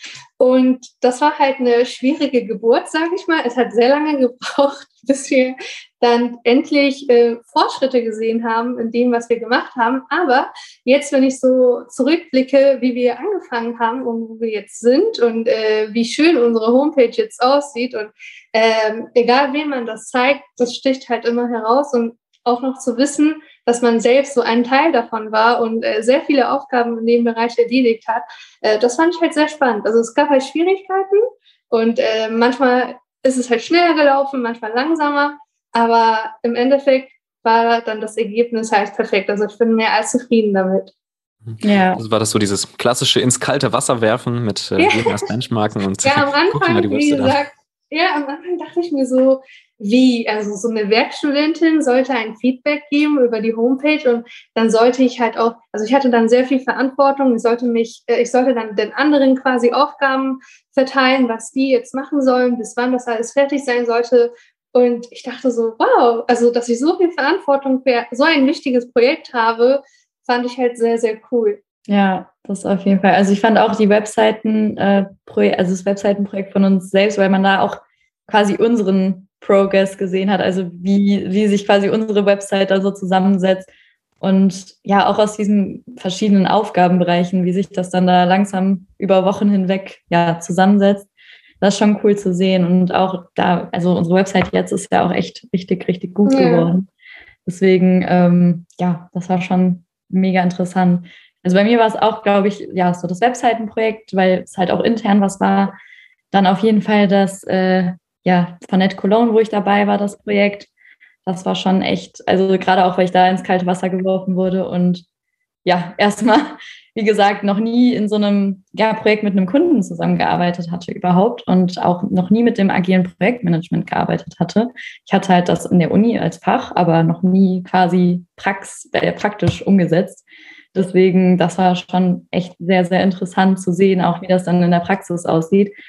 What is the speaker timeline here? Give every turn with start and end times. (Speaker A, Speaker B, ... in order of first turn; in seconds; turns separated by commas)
Speaker A: 0.4-40.9, Speaker B: 41.5-47.4, Speaker C: 41.6-42.0, Speaker A: 44.8-45.2, Speaker A: 46.0-71.6, Speaker C: 71.9-83.7, Speaker C: 84.2-91.1, Speaker C: 91.6-96.9, Speaker A: 96.3-96.7, Speaker C: 97.5-105.7, Speaker C: 106.3-110.7, Speaker C: 111.3-115.0, Speaker C: 115.7-135.7